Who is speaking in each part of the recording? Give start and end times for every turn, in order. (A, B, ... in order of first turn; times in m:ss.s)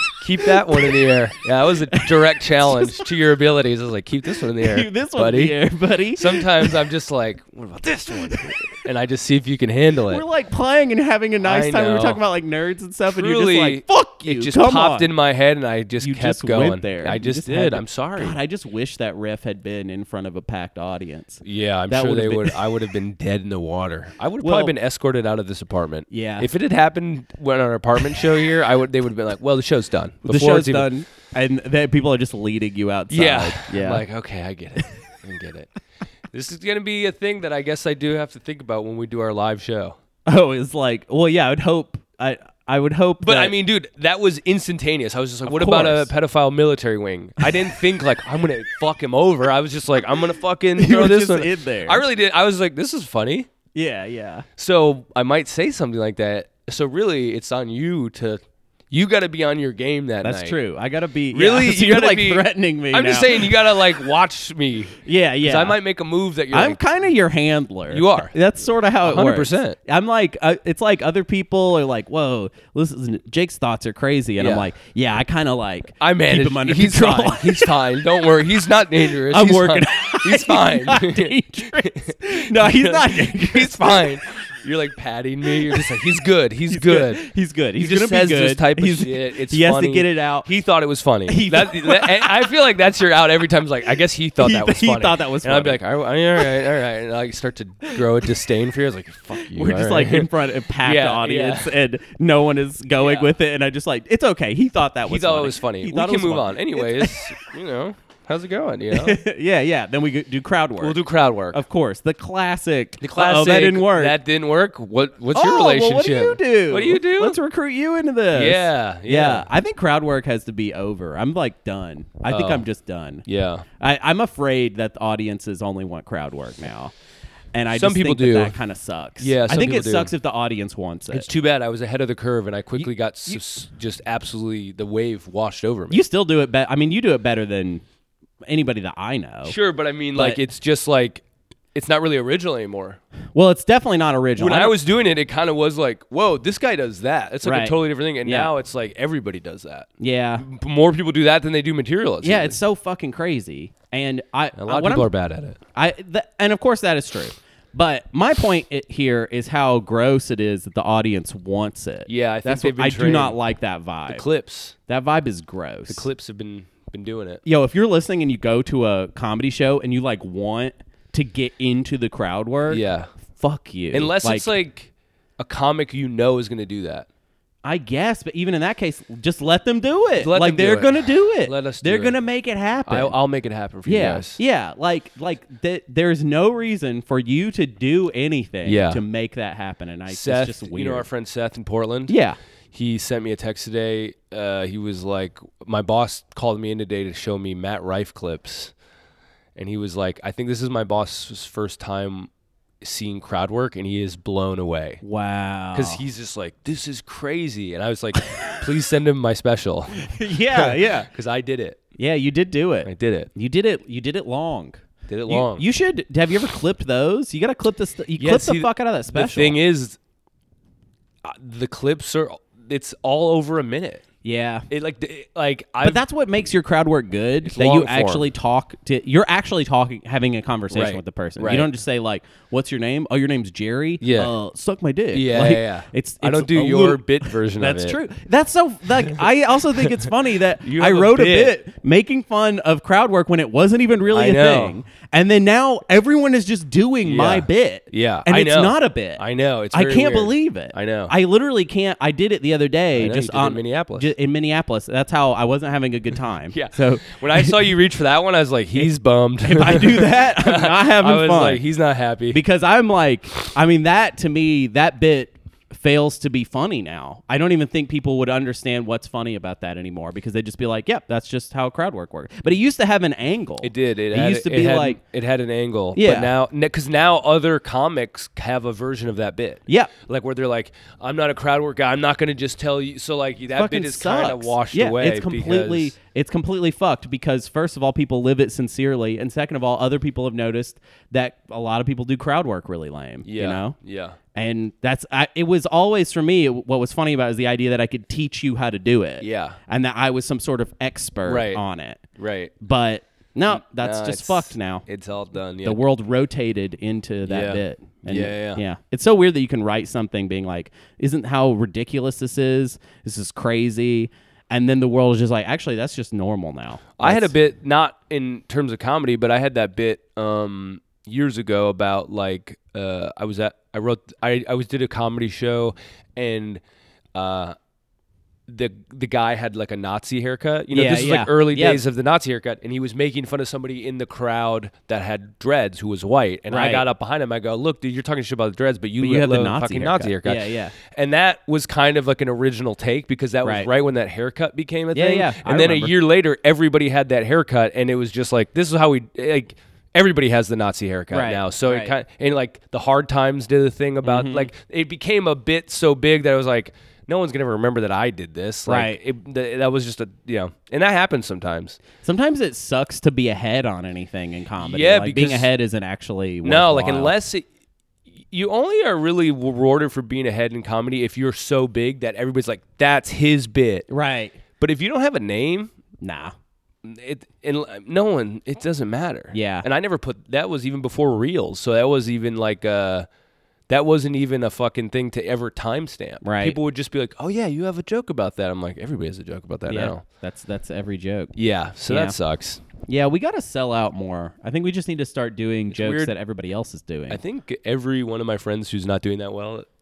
0:00.2-0:05.6 A
0:00.4-0:00.9 B
0:01.9-0:03.1 B
0:04.6-0:06.8 B
0:06.1-0:10.2 A
0:08.1-0:08.6 B
0:10.1-0:15.1 B
0:11.4-0:12.2 A
0:13.1-0:18.4 A
0:16.0-0:22.7 B
0:21.4-0:30.9 A
0:24.4-0:24.7 B
0:26.1-0:26.5 B
0:30.2-0:34.0 B
0:33.1-0:35.7 A
0:36.3-0:40.0 A
0:40.3-0:43.6 B
0:43.2-0:53.5 A
0:45.4-0:46.1 B
0:50.8-0:52.0 B
0:53.8-0:54.5 B
0:54.6-1:00.6 A
1:00.2-1:03.7 B
1:01.3-1:06.8 A
1:05.0-1:05.8 B
1:06.5-1:17.8 B
1:07.9-1:08.3 A
1:09.0-1:09.8 A
1:14.4-1:14.7 A
1:16.0-1:27.2 A
1:19.1-1:24.1 B
1:26.7-1:30.5 B
1:27.8-1:41.7 A
1:31.3-1:32.5 B
1:34.4-1:35.8 B
1:39.3-1:47.3 B
1:43.0-1:43.3 A
1:45.0-1:49.2 A
1:48.9-1:51.0 B
1:50.8-1:51.6 A
1:51.5-1:54.2 B
1:53.0-1:57.4 A
1:55.3-2:03.2 B
1:58.3-1:59.5 A
2:02.3-2:02.7 A
2:03.3-2:03.6 A
2:03.8-2:06.9 B
2:07.5-2:11.3 B
2:07.7-2:08.6 A
2:09.2-2:10.1 A
2:11.1-2:16.0 A
2:12.8-2:13.4 B
2:15.9-2:17.8 B
2:18.5-2:19.6 B
2:19.4-2:23.0 A
2:20.2-2:20.4 B
2:23.4-2:24.8 B
2:24.4-2:29.9 A
2:27.4-2:28.5 B
2:30.0-2:30.4 B
2:30.4-2:32.6 A
2:32.2-2:35.1 B
2:34.6-2:35.6 A
2:35.8-2:44.2 B
2:42.1-2:43.4 A
2:44.1-2:44.8 A
2:44.9-2:46.1 B
2:45.9-2:47.4 A
2:47.4-2:54.5 B
2:52.7-2:53.1 A
2:53.9-2:57.1 A
2:57.6-3:03.2 B
3:00.2-3:02.2 A
3:02.9-3:04.4 A
3:03.8-3:11.1 B
3:08.6-3:09.0 A
3:10.1-3:12.2 A
3:12.1-3:12.4 B
3:12.7-3:18.7 A
3:19.6-3:25.0 A
3:25.0-3:26.0 B
3:25.7-3:31.8 A
3:28.3-3:28.6 B
3:30.0-3:31.1 B
3:32.0-3:39.6 B
3:32.8-3:33.3 A
3:35.1-3:35.6 A
3:38.2-3:40.0 A
3:41.2-3:44.0 A
3:44.2-3:44.7 B
3:44.7-3:46.0 A
3:45.8-4:17.6 B
3:47.4-3:48.3 A
3:50.7-3:51.7 A
3:54.0-3:54.3 A
3:55.1-3:58.0 A
3:59.8-4:01.6 A
4:04.1-4:04.8 A
4:07.0-4:11.1 A
4:13.0-4:14.1 A
4:16.5-4:22.4 A
4:19.4-4:21.6 B
4:22.3-4:35.0 B
4:33.6-4:45.9 A
4:36.0-4:36.3 B
4:39.7-4:39.9 B
4:43.6-4:53.8 B
4:53.2-4:54.2 A
4:54.3-5:02.0 B
4:59.2-4:59.6 A
5:01.3-5:01.6 A
5:02.2-5:02.6 A
5:02.6-5:04.8 B
5:03.5-5:05.8 A
5:05.6-5:17.4 B
5:07.3-5:08.6 A
5:17.0-5:26.6 A
5:27.1-5:27.6 A
5:28.5-6:01.8 A
5:30.7-5:31.8 B
5:36.5-5:36.8 B
5:39.0-5:40.8 B
5:43.4-5:43.7 B
5:44.9-5:45.9 B
5:51.1-5:52.0 B
5:54.0-5:54.5 B
5:58.7-5:59.0 B
6:02.0-6:07.1 B
6:04.6-6:05.5 A
6:06.4-6:07.5 A
6:08.3-6:13.9 A
6:13.9-6:14.4 B
6:14.6-6:15.7 A
6:16.0-6:16.3 B
6:16.8-6:23.1 A
6:19.3-6:19.7 B
6:23.7-6:30.0 A
6:26.2-6:26.6 B
6:29.7-6:31.4 B
6:31.4-6:32.6 A
6:31.9-6:32.2 B
6:32.8-6:37.2 B
6:35.7-6:36.1 A
6:37.1-6:39.7 A